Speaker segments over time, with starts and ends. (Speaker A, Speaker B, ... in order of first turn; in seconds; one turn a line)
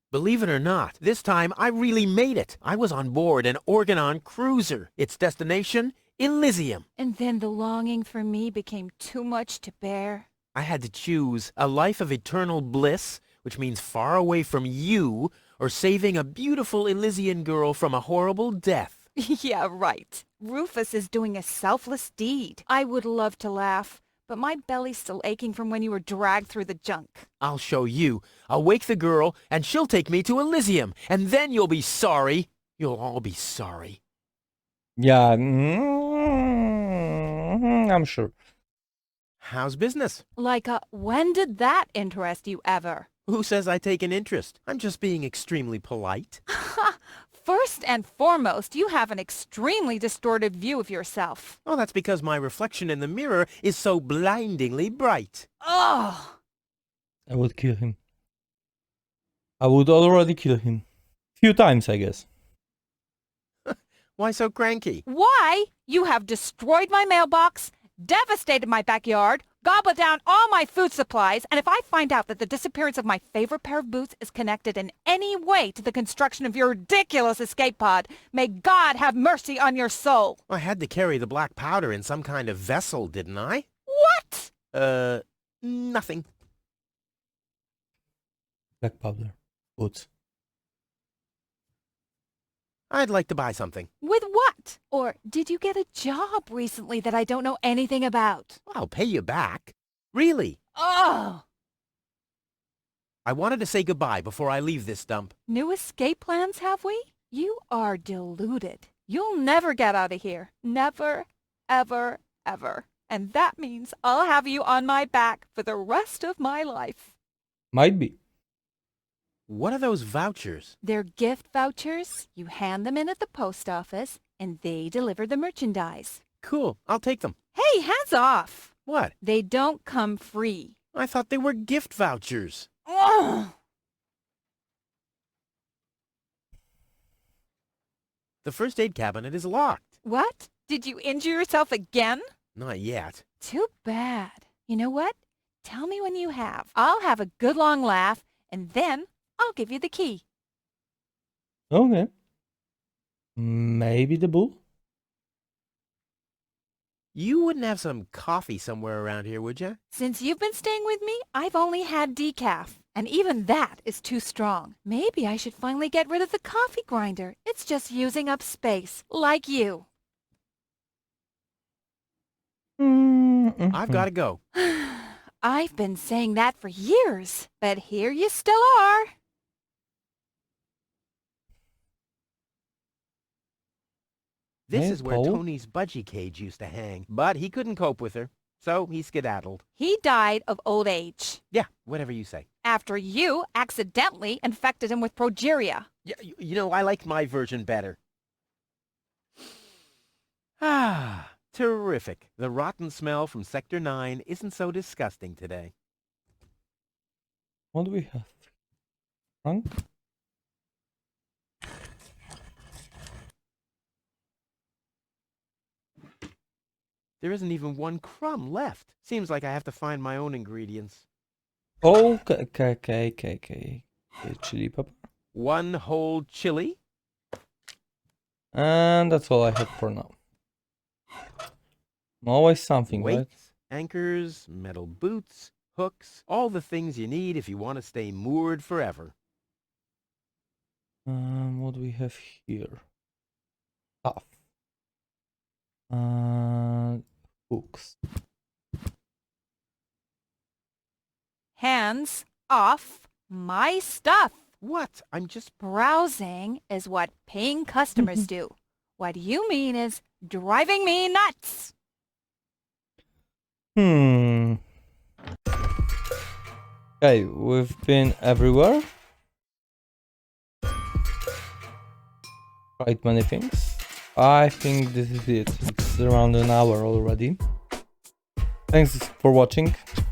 Speaker A: 0.1-6.8
Speaker B: 7.0-10.3
Speaker A: 10.5-19.1
Speaker B: 19.2-27.3
Speaker A: 27.4-34.0
Speaker C: 35.0-38.3
Speaker A: 39.4-40.2
Speaker B: 40.4-43.1
Speaker A: 43.3-46.4
Speaker B: 46.5-51.6
Speaker A: 51.6-55.5
Speaker B: 55.6-56.4
Speaker C: 57.3-58.0
Speaker C: 59.6-60.8
Speaker C: 61.4-62.3
Speaker A: 63.7-65.0
Speaker B: 65.0-80.4
Speaker A: 80.5-83.7
Speaker B: 83.9-84.5
Speaker A: 84.7-86.2
Speaker C: 88.8-90.0
Speaker A: 92.9-93.9
Speaker B: 94.0-98.6
Speaker A: 98.7-100.6
Speaker B: 100.8-101.4
Speaker A: 103.2-105.3
Speaker B: 105.5-117.1
Speaker C: 117.7-118.2
Speaker A: 119.5-120.8
Speaker B: 120.8-126.2
Speaker A: 126.4-127.3
Speaker B: 127.5-130.8
Speaker A: 128.9-129.1
Speaker A: 130.9-132.7
Speaker B: 132.9-133.5
Speaker A: 138.4-139.9
Speaker B: 140.0-142.2
Speaker A: 142.6-143.2
Speaker B: 143.4-150.2
Speaker C: 151.7-152.1
Speaker C: 153.4-154.6
Speaker A: 157.1-159.8
Speaker B: 159.9-169.9
Speaker C: 172.8-174.1
Speaker A: 173.7-174.4
Speaker B: 174.6-179.1
Speaker A: 184.7-189.6
Speaker C: 184.7-185.4
Speaker B: 189.8-191.4
Speaker A: 191.5-192.5
Speaker B: 192.6-195.9
Speaker A: 196.1-198.0
Speaker A: 200.6-205.7
Speaker C: 207.7-208.3
Speaker A: 217.2-221.1
Speaker C: 221.8-225.0
Speaker A: 225.3-226.8
Speaker C: 228.5-230.1
Speaker C: 232.2-233.3
Speaker A: 232.9-239.1
Speaker C: 241.1-242.8
Speaker C: 245.9-247.9
Speaker B: 251.6-254.4
Speaker A: 254.6-255.6
Speaker B: 255.6-261.7
Speaker C: 263.8-264.6
Speaker C: 267.0-268.9
Speaker C: 272.8-277.4
Speaker C: 278.7-279.8